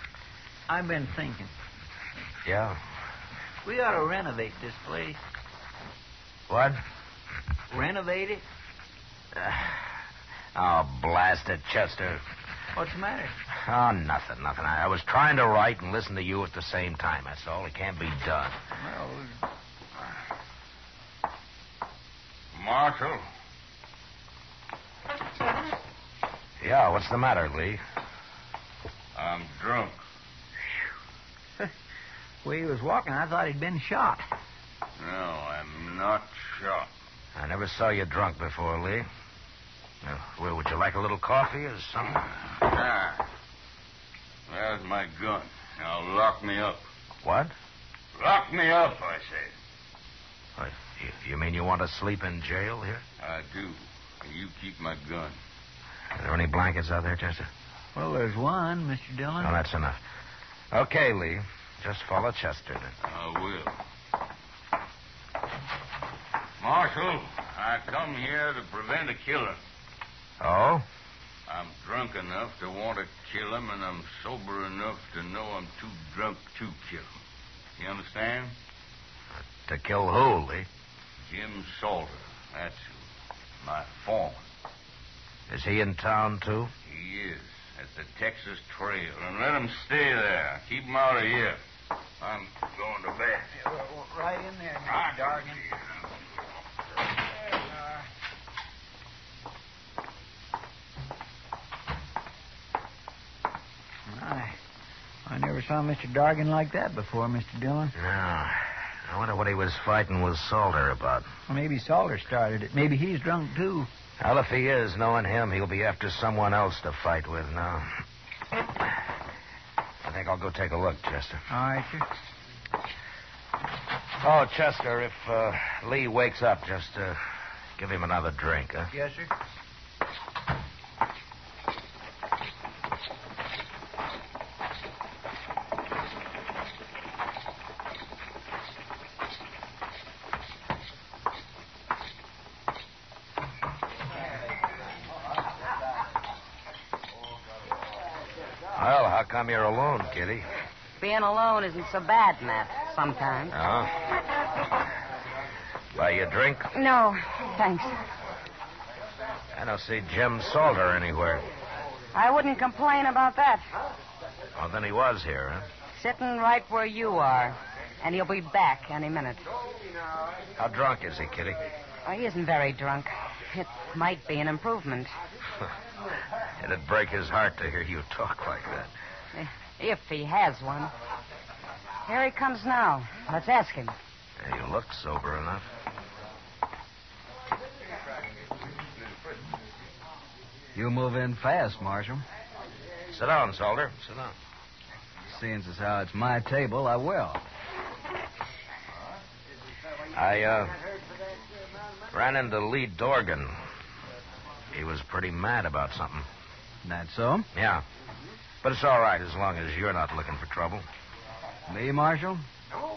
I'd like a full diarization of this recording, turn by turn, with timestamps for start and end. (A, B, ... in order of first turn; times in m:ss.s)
0:00.7-0:01.5 A
0:02.4-0:02.8 B
0:03.6-0:05.2 A
0:06.5-0:06.8 B
0:07.7-0:08.4 A
0:09.3-0:09.9 B
0:10.5-0:12.2 B
0:12.7-0:13.3 A
0:13.5-0:18.6 B
0:18.8-0:19.4 A
0:22.5-0:23.3 C
0:26.6-0:27.8 B
0:29.1-0:30.0 C
0:32.4-0:34.2 A
0:35.0-0:36.9 C
0:37.3-0:39.1 B
0:40.0-0:42.3 B
0:42.6-0:43.2 C
0:44.5-0:46.8 C
0:47.2-0:47.5 B
0:48.1-0:49.5 C
0:50.6-0:53.0 B
0:53.2-0:55.4 C
0:56.1-0:57.5 B
0:57.9-0:59.5 A
0:59.4-1:00.0 B
1:00.7-1:02.9 B
1:03.0-1:03.8 C
1:06.6-1:09.6 C
1:10.4-1:10.8 B
1:11.5-1:17.1 C
1:17.8-1:18.6 C
1:19.4-1:20.7 B
1:21.3-1:22.9 C
1:23.6-1:24.4 C
1:25.5-1:26.7 B
1:26.8-1:31.6 C
1:32.2-1:33.5 C
1:33.6-1:35.6 A
1:35.0-1:36.0 C
1:44.1-1:44.6 A
1:45.2-1:47.9 A
1:47.9-1:51.3 B
1:51.5-1:53.9 A
1:54.2-1:58.0 B
2:00.0-2:01.4 B
2:01.5-2:02.0 A
2:04.2-2:07.2 B
2:07.8-2:08.9 B
2:08.9-2:09.3 A
2:28.7-2:30.5 B
2:31.0-2:33.6 D
2:33.5-2:34.0 B
2:35.9-2:36.7 B
2:36.7-2:38.0 D
2:39.5-2:41.5 B
2:42.1-2:43.6 D
2:44.5-2:45.7 B
2:45.9-2:49.4 D
2:50.6-2:51.6 B
2:52.0-2:55.1 D
2:56.6-2:58.9 B
2:59.3-3:00.9 D
3:02.0-3:03.9 D
3:04.4-3:05.7 B
3:10.7-3:12.2 E
3:13.1-3:14.3 B
3:15.3-3:17.4 E
3:20.1-3:20.8 B
3:22.1-3:23.6 B
3:24.7-3:26.3 B
3:26.8-3:27.5 E
3:27.5-3:27.8 B
3:28.6-3:30.8 B
3:31.7-3:32.4 E